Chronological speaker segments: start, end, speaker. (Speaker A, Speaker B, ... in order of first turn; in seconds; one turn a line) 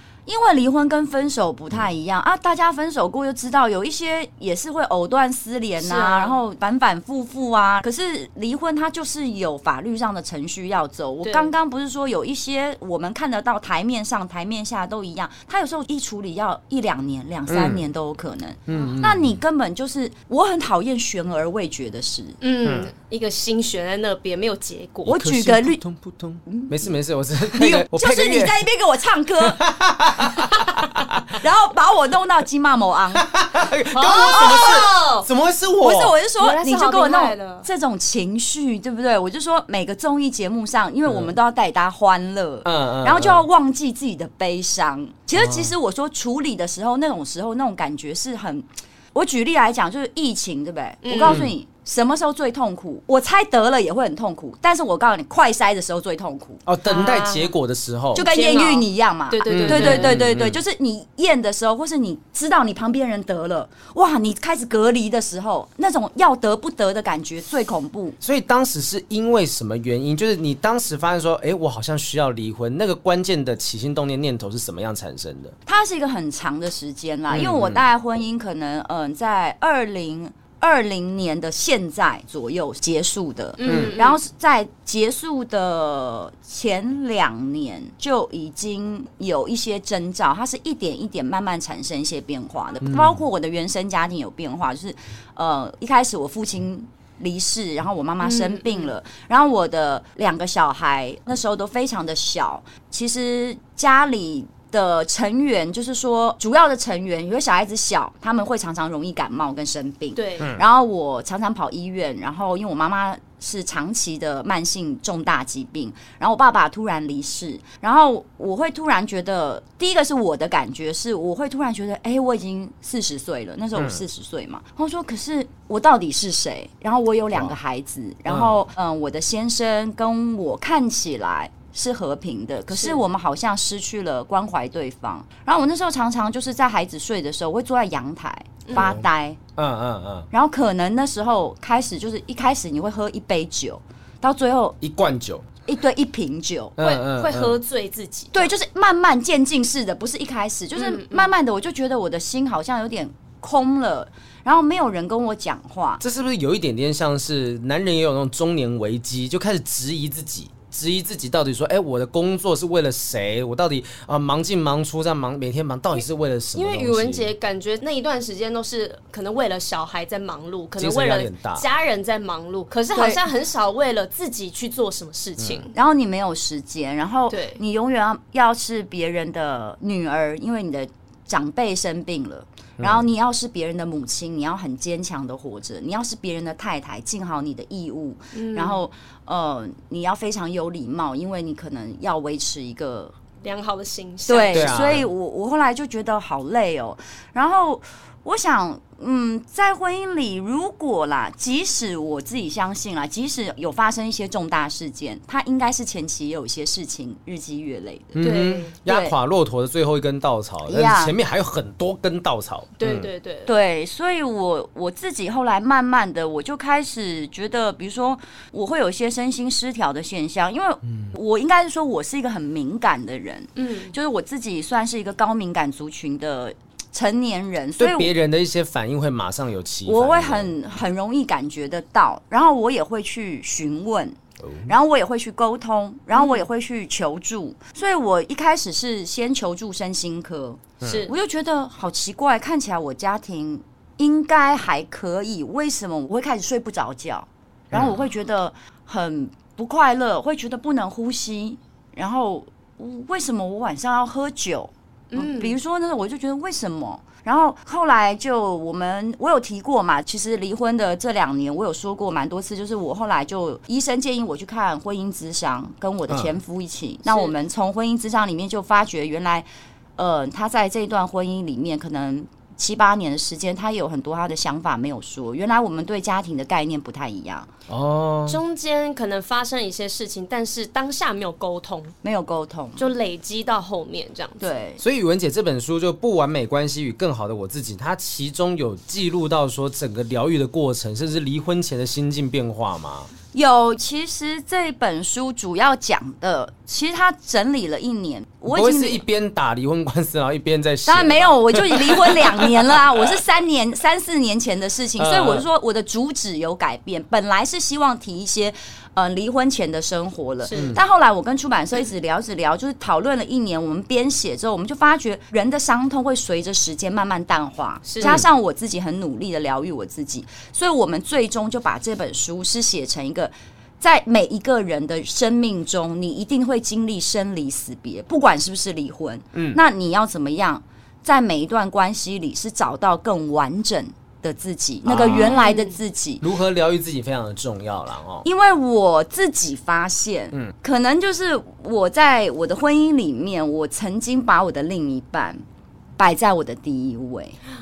Speaker A: 0.3-22.4
Speaker B: 5.8-6.4
Speaker B: 11.2-11.5
Speaker C: 17.5-17.8
Speaker C: 18.7-19.4
Speaker B: 22.4-25.1
Speaker C: 22.6-22.9
Speaker A: 25.1-25.8
Speaker C: 25.1-28.6
Speaker A: 26.5-26.9
Speaker A: 27.5-29.6
Speaker C: 29.4-31.4
Speaker A: 31.3-33.3
Speaker C: 33.1-36.1
Speaker B: 33.9-35.3
Speaker A: 34.2-34.9
Speaker A: 35.8-56.6
Speaker B: 36.4-37.7
Speaker C: 41.1-41.3
Speaker C: 42.6-43.5
Speaker C: 45.4-45.7
Speaker B: 51.0-51.4
Speaker C: 51.2-51.5
Speaker C: 56.7-58.2
Speaker B: 56.9-57.5
Speaker B: 58.1-60.2
Speaker A: 58.1-68.2
Speaker C: 59.5-60.6
Speaker C: 68.2-75.6
Speaker A: 75.7-139.4
Speaker C: 77.3-77.8
Speaker B: 83.6-84.2
Speaker C: 83.6-84.0
Speaker C: 92.8-93.2
Speaker B: 98.2-98.9
Speaker B: 110.2-110.5
Speaker C: 123.8-124.0
Speaker C: 128.3-128.6
Speaker B: 132.7-133.0
Speaker B: 138.7-138.9
Speaker C: 138.8-139.1
Speaker C: 139.6-140.3
Speaker A: 140.3-144.8
Speaker C: 144.8-145.5
Speaker A: 145.7-146.8
Speaker C: 146.8-147.6
Speaker B: 146.8-148.5
Speaker A: 148.3-156.0
Speaker B: 150.8-151.3
Speaker C: 156.0-167.3
Speaker B: 166.6-175.7
Speaker C: 170.8-171.7
Speaker A: 172.9-173.2
Speaker C: 175.4-175.7
Speaker A: 175.7-193.1
Speaker B: 177.3-177.6
Speaker C: 182.8-183.1
Speaker B: 188.3-188.8
Speaker B: 193.4-194.9
Speaker A: 194.3-208.3
Speaker C: 194.5-195.1
Speaker C: 208.1-213.1
Speaker B: 208.2-208.7
Speaker A: 208.9-209.2
Speaker A: 210.7-211.2
Speaker B: 212.8-213.5
Speaker A: 213.5-228.1
Speaker C: 220.9-221.1
Speaker B: 223.6-223.9
Speaker C: 227.8-230.5
Speaker A: 229.9-269.5
Speaker C: 234.4-234.7
Speaker B: 236.1-236.4
Speaker C: 240.8-241.1
Speaker B: 240.8-241.1
Speaker C: 247.7-248.0
Speaker B: 255.1-255.6
Speaker C: 266.1-266.3
Speaker B: 267.1-267.3
Speaker A: 270.0-277.5
Speaker C: 277.7-278.4
Speaker B: 278.3-281.9
Speaker A: 282.0-282.9
Speaker B: 282.8-284.6
Speaker A: 284.4-284.8
Speaker C: 284.8-293.1
Speaker A: 293.3-299.0
Speaker C: 298.5-303.0
Speaker A: 300.9-336.2
Speaker C: 305.0-305.4
Speaker B: 310.4-310.8
Speaker C: 310.5-310.8
Speaker B: 317.9-318.2
Speaker C: 318.0-318.3
Speaker C: 329.3-329.6
Speaker C: 334.9-335.4
Speaker B: 335.1-335.8
Speaker C: 336.2-338.2
Speaker A: 338.2-345.4
Speaker A: 346.0-347.4